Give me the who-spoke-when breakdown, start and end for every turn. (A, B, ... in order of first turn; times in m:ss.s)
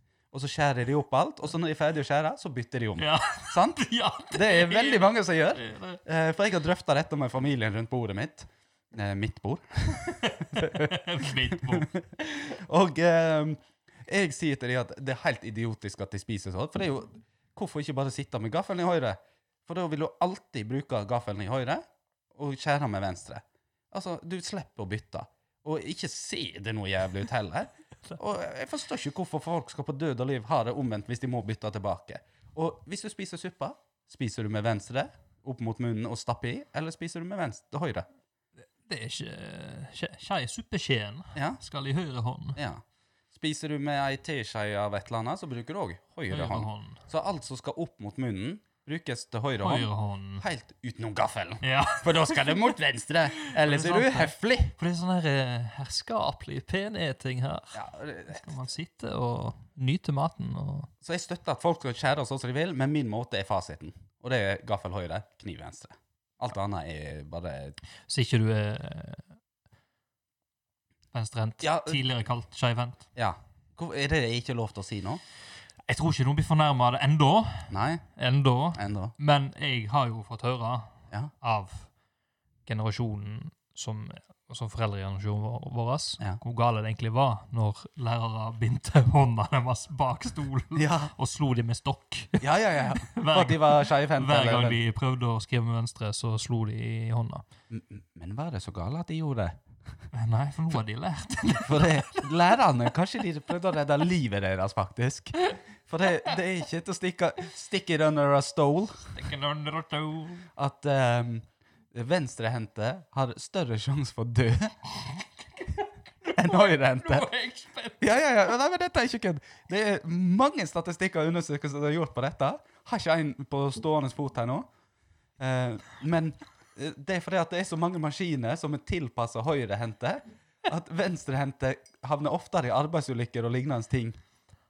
0:00.3-0:38.0 A
0:03.0-0:06.0 B
0:10.0-0:11.9 B
0:38.8-0:42.6 B
0:41.3-0:41.6 A
0:42.6-0:54.7 A
0:46.3-0:47.0 B
0:49.6-0:50.4 B
0:51.6-0:52.6 B
0:53.4-1:00.9 B
0:57.7-0:58.5 A
1:01.0-1:07.8 A
1:08.1-1:09.3 B
1:11.1-1:13.1 B
1:11.6-1:12.0 A
1:13.1-1:15.2 A
1:15.9-1:21.9 B
1:17.7-1:18.0 A
1:18.7-1:19.1 A
1:22.6-1:37.4 B
1:30.8-1:31.1 A
1:32.4-1:34.8 A
1:37.7-1:39.6 A
1:40.1-1:42.3 B
1:41.5-1:49.1 A
1:49.1-1:50.5 B
1:50.6-1:54.8 A
1:55.0-1:58.0 B
1:56.2-1:57.3 A
1:58.0-2:04.6 A
2:05.4-2:14.2 A